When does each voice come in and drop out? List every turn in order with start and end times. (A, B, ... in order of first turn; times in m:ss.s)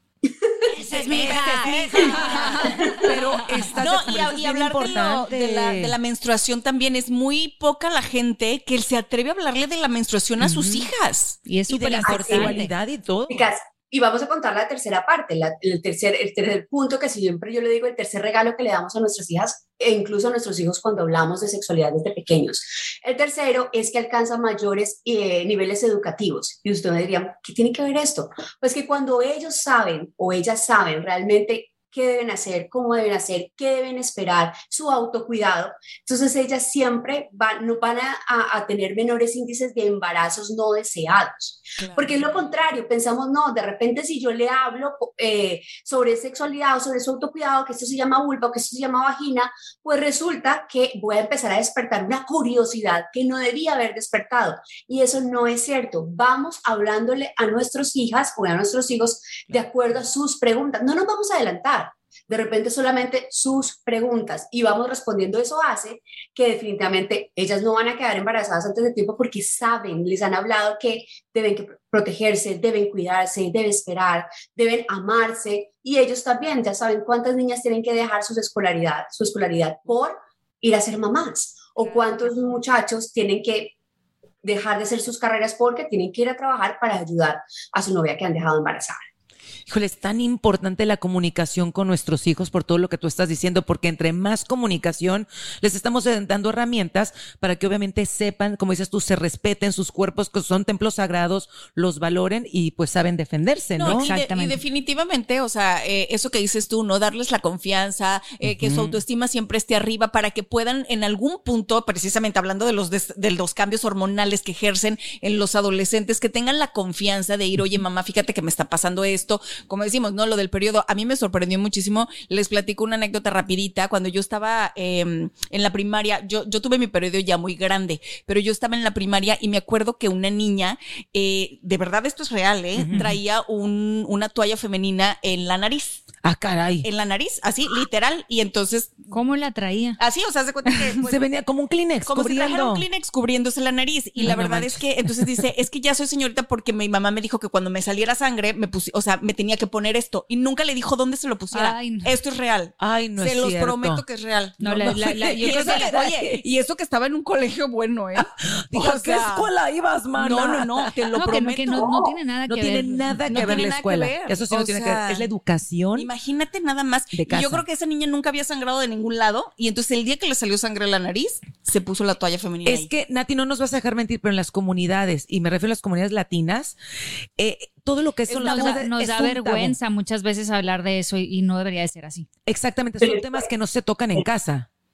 0:00.3-0:00.7 A
0:00.8-0:05.9 B
0:00.9-0:11.4 C
0:01.0-0:02.8 D
0:10.4-0:10.9 B
0:11.4-0:12.7 D
0:11.7-0:13.4 B
0:12.0-0:12.6 A
0:13.3-1:23.7 A
0:41.8-0:42.5 C
1:24.4-1:29.0 A
1:29.7-1:44.1 B
1:43.8-2:16.1 C
1:43.8-1:44.6 D
1:48.4-1:49.0 B
2:12.8-2:13.2 B
2:16.2-2:16.9 B
2:16.8-2:19.1 C
2:19.1-2:20.0 D
2:20.0-2:21.2 C
2:21.0-2:22.8 B
2:22.0-2:39.5 C
2:24.2-2:25.4 B
2:31.5-2:32.1 D
2:32.8-2:34.0 B
2:34.6-2:35.9 D
2:34.8-2:36.4 B
2:38.7-2:40.9 B
2:40.1-2:42.0 C
2:41.2-2:43.6 D
2:42.5-2:46.1 B
2:43.3-2:45.3 C
2:46.0-2:52.9 C
2:47.1-2:47.6 B
2:52.6-2:56.8 B
2:57.4-2:59.8 B
2:58.3-3:02.3 D
3:02.4-3:04.7 B
3:03.0-3:03.5 A